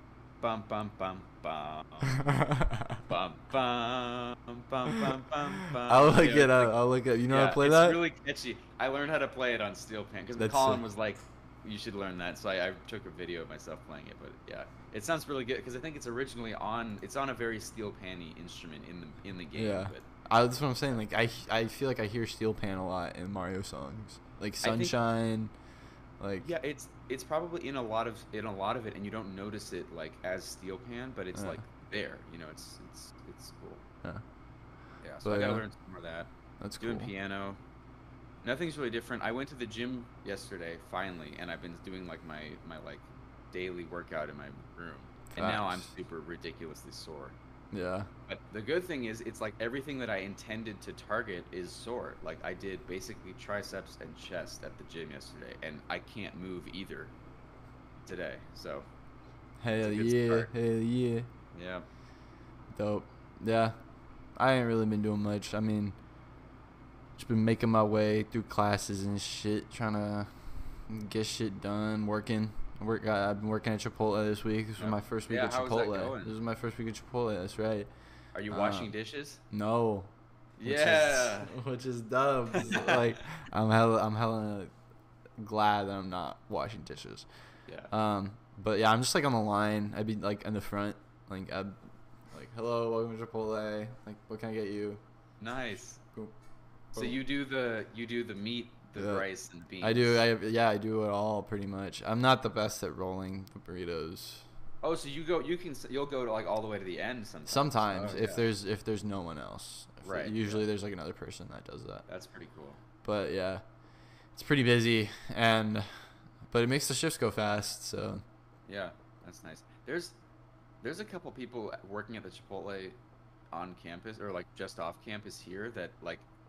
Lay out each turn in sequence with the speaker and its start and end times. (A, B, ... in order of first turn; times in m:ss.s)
0:00.4-0:02.2 A
0:02.1-0:03.0 B
0:03.0-0:06.8 A
0:05.6-0:08.0 B
0:07.3-0:20.1 A
0:10.4-0:10.8 B
0:19.6-0:25.5 B
0:24.6-0:25.0 A
0:26.2-0:26.5 B
0:26.4-0:33.9 A
0:31.3-0:31.6 B
0:35.0-0:37.6 A
0:35.2-0:35.6 B
0:36.6-0:37.1 B
0:38.4-0:47.4 A
0:45.3-0:45.9 B
0:47.7-0:48.1 B
0:48.3-0:57.1 A
0:58.0-0:58.9 A
0:59.6-1:01.3 B
0:59.8-1:00.5 A
1:01.5-1:01.9 A
1:02.7-1:03.8 B
1:04.4-1:06.0 B
1:07.2-1:10.3 B
1:10.9-1:17.9 B
1:14.8-1:16.3 A
1:18.3-1:19.4 A
1:18.5-1:18.9 B
1:19.5-1:20.1 B
1:20.6-1:21.5 A
1:20.6-1:24.7 B
1:22.5-1:23.2 A
1:25.4-1:27.3 B
1:27.6-1:27.9 A
1:27.9-1:31.8 B
1:32.3-1:35.0 B
1:35.4-1:36.0 A
1:36.9-1:40.2 A
1:39.0-1:39.3 B
1:39.8-1:44.4 B
1:44.8-1:48.5 A
1:47.5-1:52.0 B
1:50.0-1:50.6 A
1:52.1-1:52.8 A
1:53.0-1:53.6 B
1:54.3-1:58.2 B
1:58.7-2:00.2 A
2:00.8-2:03.0 A
2:03.5-2:06.3 A